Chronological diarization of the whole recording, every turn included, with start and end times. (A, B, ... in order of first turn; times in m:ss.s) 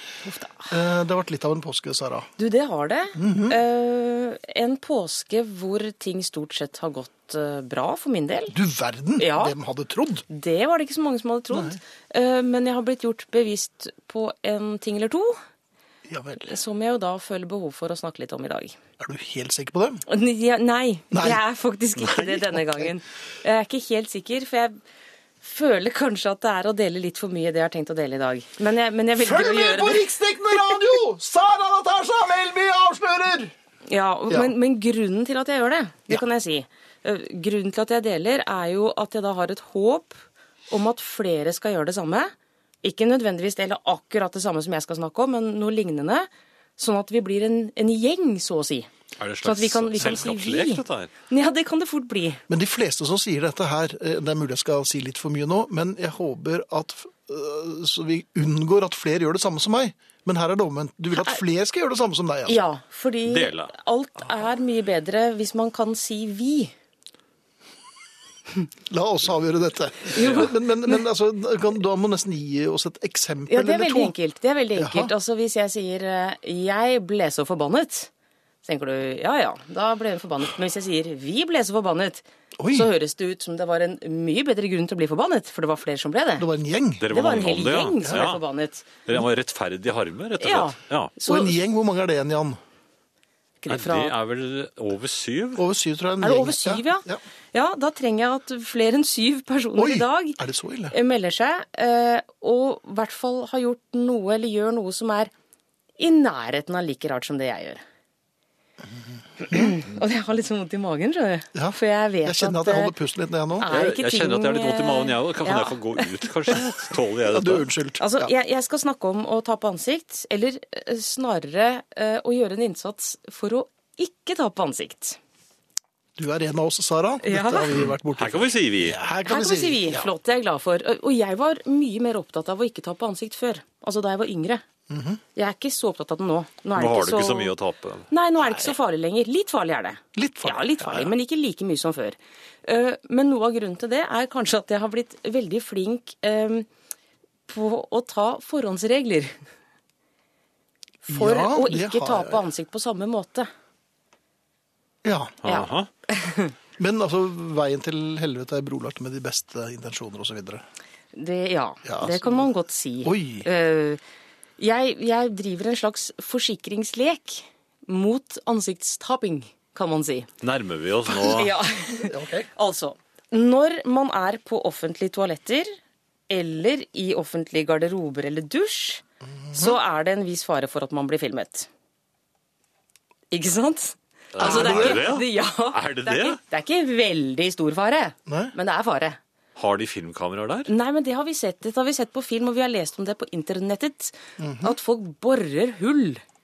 0:00.2-0:00.7 A
0:00.7-0:02.3 B
0:02.4-0:08.6 A
0:03.2-0:03.6 B
0:08.5-0:10.2 B
0:09.2-0:09.5 A
0:10.3-0:15.4 A
0:11.5-0:11.8 B
0:16.1-0:16.5 B
0:16.5-0:18.8 A
0:19.0-0:20.0 B
0:20.1-0:24.8 A
0:21.1-0:21.4 B
0:22.0-0:22.3 C
0:25.4-0:30.8 A
0:29.2-0:33.5 B
0:33.9-0:40.2 A
0:40.7-0:42.3 A
0:42.8-0:48.9 A
0:49.2-0:51.1 C
0:49.4-0:52.4 A
0:52.5-1:02.6 B
1:01.1-1:01.4 A
1:02.5-1:06.7 A
1:03.3-1:03.7 C
1:08.9-1:14.1 B
1:10.2-1:11.0 A
1:10.2-1:10.5 C
1:13.5-1:18.1 A
1:14.8-1:15.1 B
1:18.6-1:26.5 A
1:22.6-1:22.9 B
1:26.4-1:27.1 B
1:27.0-1:28.4 C
1:27.1-1:29.0 A
1:29.1-1:31.1 C
1:30.4-1:31.6 A
1:31.2-1:32.6 B
1:33.6-1:34.1 A
1:33.7-1:35.6 C
1:35.6-1:37.2 B
1:36.2-1:40.4 A
1:39.8-1:41.0 B
1:40.9-1:45.3 A
1:46.0-1:47.8 A
1:49.4-1:52.9 A
1:49.5-1:49.8 B
1:51.6-1:53.7 B
1:53.6-1:56.6 A
1:53.7-1:57.7 C
1:57.3-1:58.3 B
1:58.0-2:05.2 A
2:06.2-2:10.1 B
2:07.2-2:07.8 A
2:07.8-2:09.0 C
2:09.3-2:14.6 A
2:14.9-2:15.2 B
2:15.4-2:17.5 A
2:16.8-2:18.1 C
2:18.1-2:26.7 A
2:20.2-2:21.1 B
2:27.5-2:29.3 A
2:31.1-2:33.5 A
2:31.1-2:32.4 B
2:35.0-2:35.4 B
2:35.4-2:35.9 C
2:35.5-2:36.5 A
2:36.8-2:40.6 B
2:41.1-2:44.0 A
2:41.8-2:42.5 B
2:43.0-2:43.5 B
2:44.6-2:50.3 A
2:50.4-2:51.6 C
2:51.1-2:55.7 A
2:52.0-2:52.5 B
2:56.3-3:01.7 A
3:03.3-3:09.2 A
3:04.3-3:06.4 C
3:04.4-3:05.2 B
3:08.3-3:08.5 B
3:09.6-3:10.7 C
3:10.7-3:16.2 A
3:14.4-3:14.8 B